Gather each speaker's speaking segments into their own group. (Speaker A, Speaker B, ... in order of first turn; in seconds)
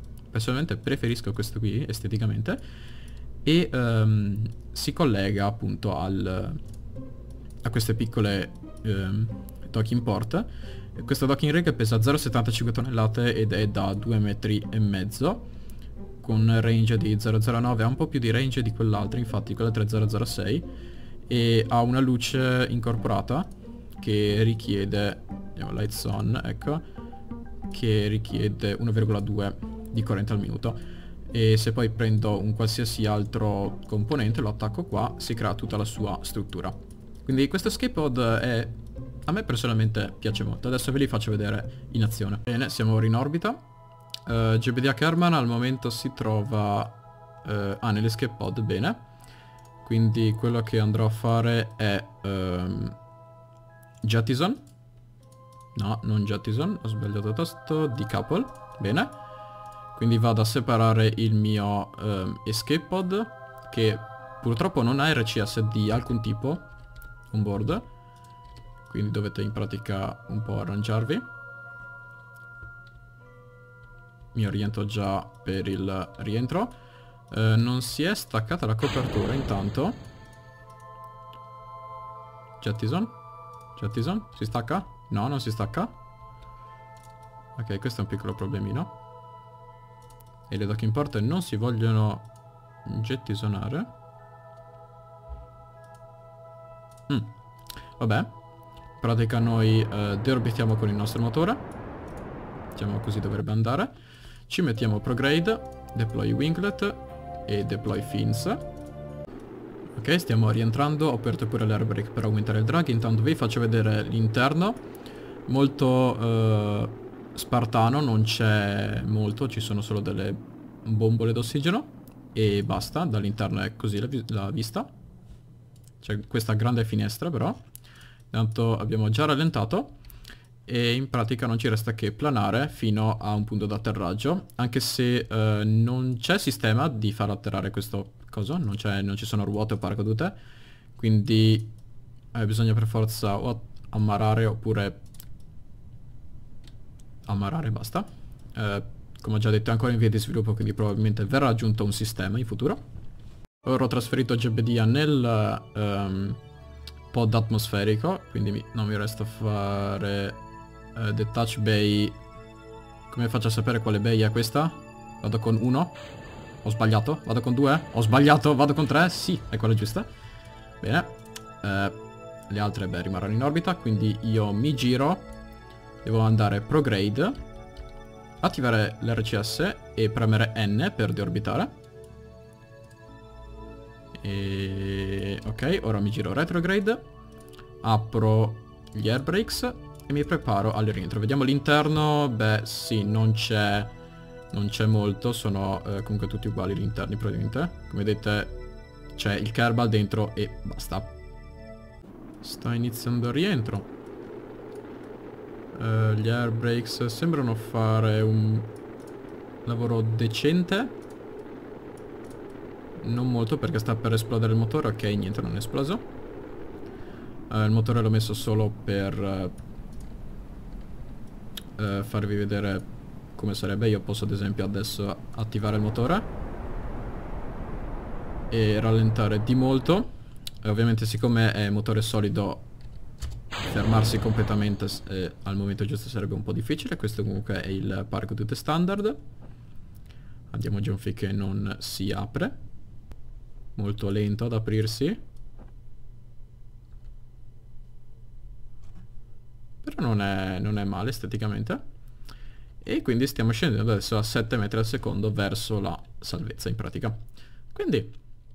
Speaker A: 0.3-2.6, 3.5-6.6, 7.6-15.4, 16.2-20.7, 21.3-23.5, 24.0-26.8, 27.7-30.8, 31.3-36.7, 37.2-43.6, 44.3-49.0, 49.8-53.0, 54.0-54.6, 55.8-59.1, 59.9-66.6, 67.3-67.8, 68.9-71.2, 74.3-76.7, 77.3-80.0, 82.6-83.1, 83.8-85.9, 87.6-88.9, 90.5-92.2, 92.8-93.9, 98.0-98.3, 99.0-101.6, 102.8-103.9, 104.5-108.6, 110.0-114.8, 115.5-124.9, 126.0-127.6, 128.3-129.9, 130.7-140.4, 141.0-141.7, 142.3-145.0, 147.3-152.8, 153.6-156.4, 157.1-160.4, 160.9-162.2, 163.1-166.0, 166.6-170.1, 170.8-171.1, 171.6-172.0, 172.5-175.2, 176.0-177.4, 178.4-181.7, 184.2-187.0, 187.8-193.9, 194.5-198.6, 199.2-201.1, 202.4-203.9, 205.7-208.7, 209.7-210.9, 213.0-216.0, 217.5-219.5, 221.8-222.8, 223.4-226.3, 228.5-230.1, 230.6-232.6, 233.7-239.2, 240.5-242.5, 243.8-245.2, 249.8-251.8, 252.8-257.2, 257.7-258.2